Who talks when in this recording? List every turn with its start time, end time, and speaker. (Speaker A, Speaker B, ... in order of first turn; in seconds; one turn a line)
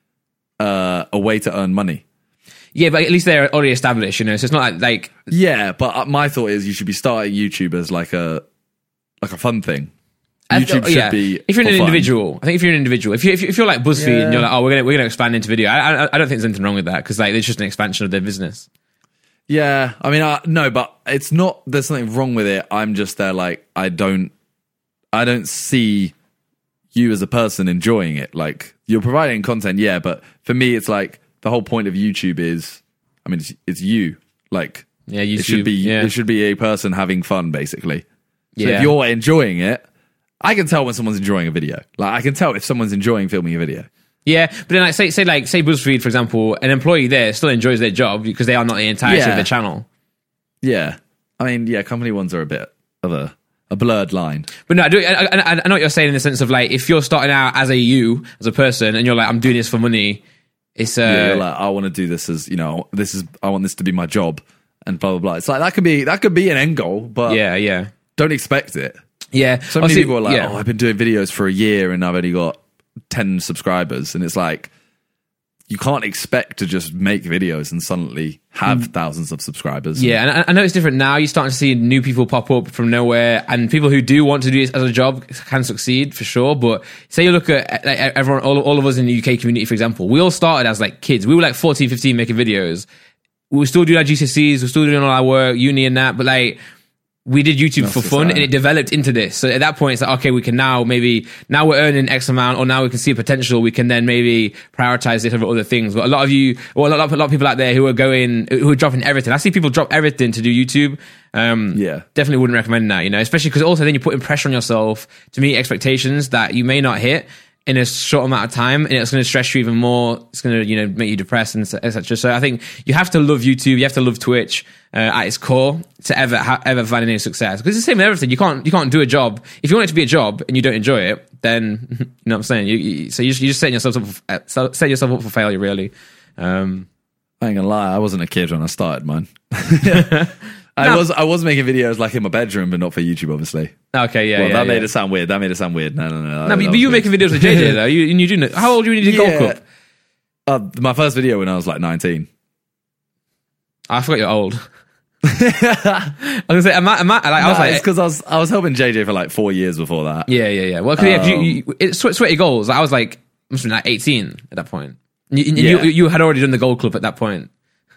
Speaker A: 0.6-2.0
Speaker B: 2.8-5.2
Speaker A: 5.3-8.4
Speaker A: 9.2-9.9
Speaker B: 10.5-18.7
Speaker A: 10.5-12.1
Speaker A: 13.9-14.5
Speaker A: 19.5-24.3
Speaker A: 25.1-26.1
Speaker A: 26.9-38.0
Speaker B: 35.1-36.1
Speaker B: 38.6-38.9
Speaker A: 38.6-39.8
Speaker A: 40.4-43.9
Speaker B: 44.3-49.9
Speaker A: 49.0-49.5
Speaker A: 50.6-54.5
Speaker B: 54.7-60.2
Speaker B: 60.8-61.4
Speaker A: 61.0-67.4
Speaker B: 67.3-67.9
Speaker A: 68.2-69.0
Speaker B: 69.3-70.5
Speaker A: 69.7-72.6
Speaker A: 73.1-74.7
Speaker A: 75.7-80.2
Speaker B: 80.0-92.9
Speaker B: 93.5-96.6
Speaker B: 97.2-136.9
Speaker A: 97.8-98.5
Speaker A: 111.7-112.1
Speaker A: 137.4-143.7
Speaker B: 139.8-141.0
Speaker B: 143.9-144.9
Speaker A: 144.4-147.8
Speaker B: 146.4-149.6
Speaker A: 149.0-149.6
Speaker A: 150.5-152.3
Speaker B: 153.9-154.6
Speaker A: 155.2-156.2
Speaker B: 156.2-157.8
Speaker A: 157.4-160.3
Speaker B: 160.3-167.5
Speaker A: 161.0-161.6
Speaker A: 165.6-165.9